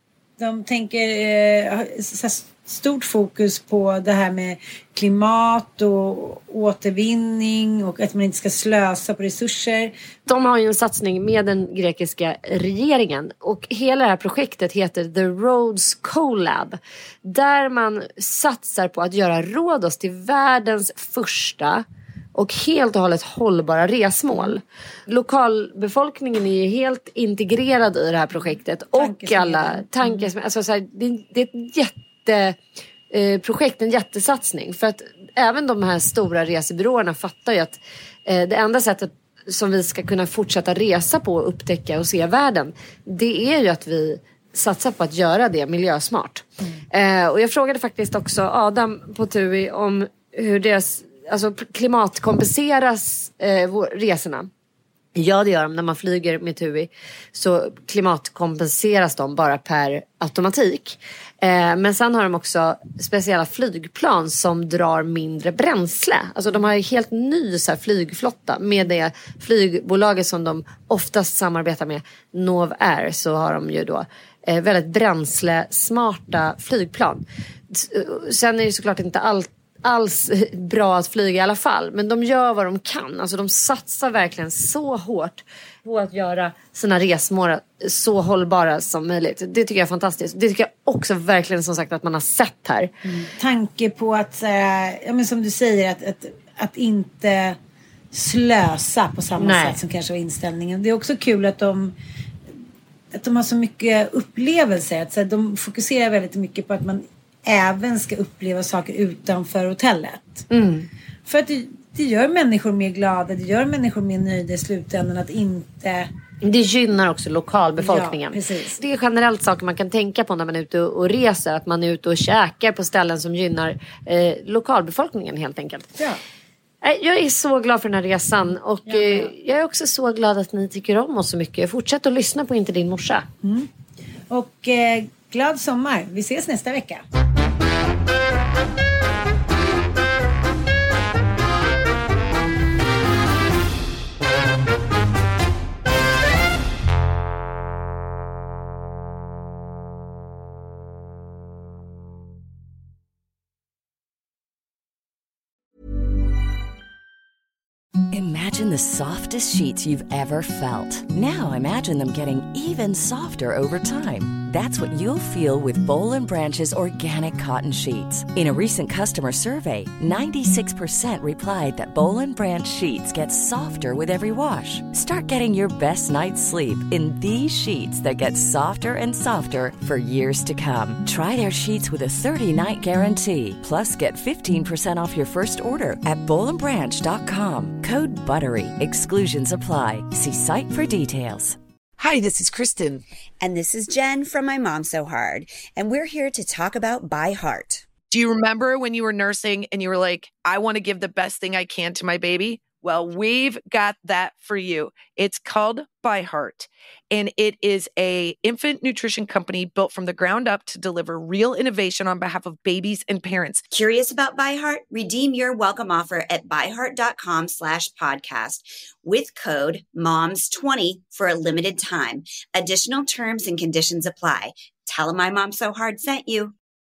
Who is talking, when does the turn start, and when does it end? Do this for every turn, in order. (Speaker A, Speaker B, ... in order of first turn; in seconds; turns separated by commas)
Speaker A: 0.4-9.9, Speaker B: 10.3-21.8, Speaker B: 22.3-32.6, Speaker A: 28.9-30.3, Speaker B: 33.1-54.5, Speaker B: 55.1-92.9, Speaker A: 93.0-97.6, Speaker A: 98.1-101.9, Speaker B: 99.4-99.8, Speaker A: 103.1-110.5, Speaker B: 110.5-110.9, Speaker A: 111.2-116.1, Speaker B: 116.4-125.9, Speaker A: 117.8-118.8, Speaker B: 126.8-133.3, Speaker A: 128.8-129.3, Speaker A: 133.4-133.7, Speaker A: 134.3-137.0, Speaker C: 158.1-191.6, Speaker D: 192.0-192.6, Speaker E: 192.3-192.8, Speaker C: 192.3-193.0, Speaker E: 193.4-197.8, Speaker D: 198.1-213.6, Speaker E: 213.7-226.5